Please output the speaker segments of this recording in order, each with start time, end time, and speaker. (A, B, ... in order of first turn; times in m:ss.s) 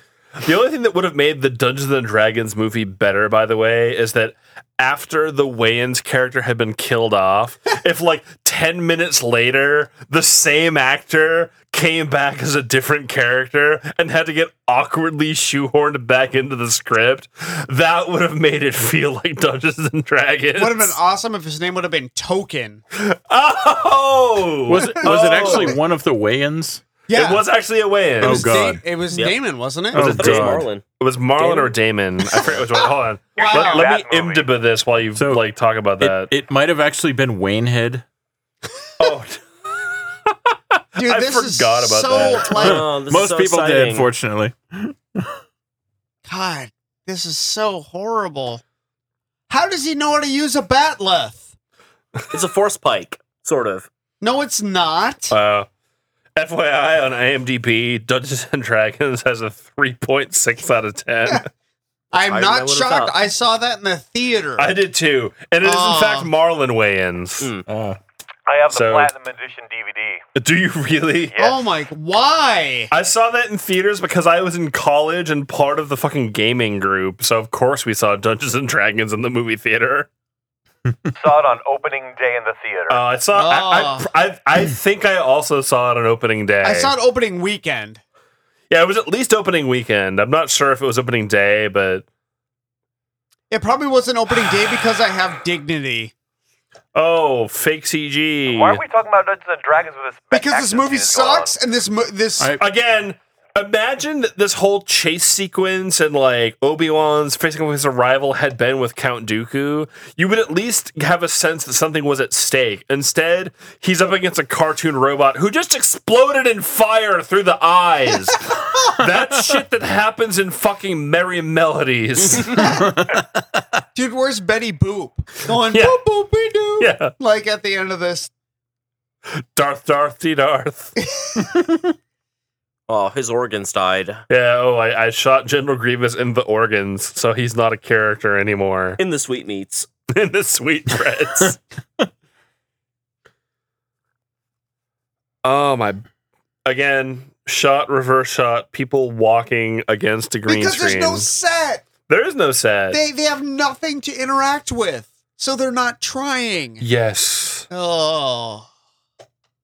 0:00.4-0:21.0 A
0:20.6-0:22.8 B
0:22.9-0:25.8 A
0:24.6-0:26.8 C
0:24.8-0:25.8 B
0:27.1-0:27.4 B
0:27.1-0:28.6 A
0:28.2-0:28.8 C
0:28.2-0:30.4 B
0:29.9-0:30.7 C
0:29.9-0:30.8 D
0:30.0-0:36.3 A
0:31.4-0:31.7 D
0:33.4-0:33.9 B
0:33.4-0:34.5 E
0:35.2-0:35.4 C
0:36.0-0:38.0 C
0:39.0-0:39.4 A
0:40.3-0:42.8 A
0:41.0-0:42.8 B
0:42.5-0:44.1 D
0:42.6-0:45.3 C
0:46.2-0:48.6 B
0:49.5-0:51.5 B
0:52.3-0:53.9 D
0:54.2-0:55.3 B
0:55.3-0:55.7 A
0:56.4-1:01.5 A
1:02.1-1:04.7 B
1:02.3-1:03.1 D
1:04.6-1:07.5 A
1:05.6-1:06.3 B
1:07.7-1:08.0 C
1:08.5-1:10.2 E
1:08.7-1:09.1 A
1:10.3-1:11.4 A
1:11.4-1:12.9 B
1:12.9-1:20.1 A
1:21.1-1:23.0 E
1:22.9-1:26.9 A
1:23.3-1:24.1 B
1:26.6-1:28.0 B
1:28.7-1:32.0 A
1:33.5-1:36.1 B
1:36.9-1:38.8 A
1:38.5-1:41.5 E
1:40.3-1:42.5 B
1:42.6-2:02.7 A
2:02.4-2:03.0 B
2:03.9-2:08.3 B
2:05.6-2:06.0 A
2:06.8-2:07.1 A
2:09.3-2:10.9 A
2:11.2-2:11.4 B
2:12.9-2:14.2 D
2:14.3-2:19.0 A
2:19.0-2:19.9 D
2:20.1-2:21.6 A
2:25.4-2:26.0 A
2:26.6-2:31.3 A
2:30.5-2:31.8 B
2:32.0-2:33.0 A
2:32.9-2:36.8 B
2:36.8-2:37.7 A
2:37.7-2:38.7 B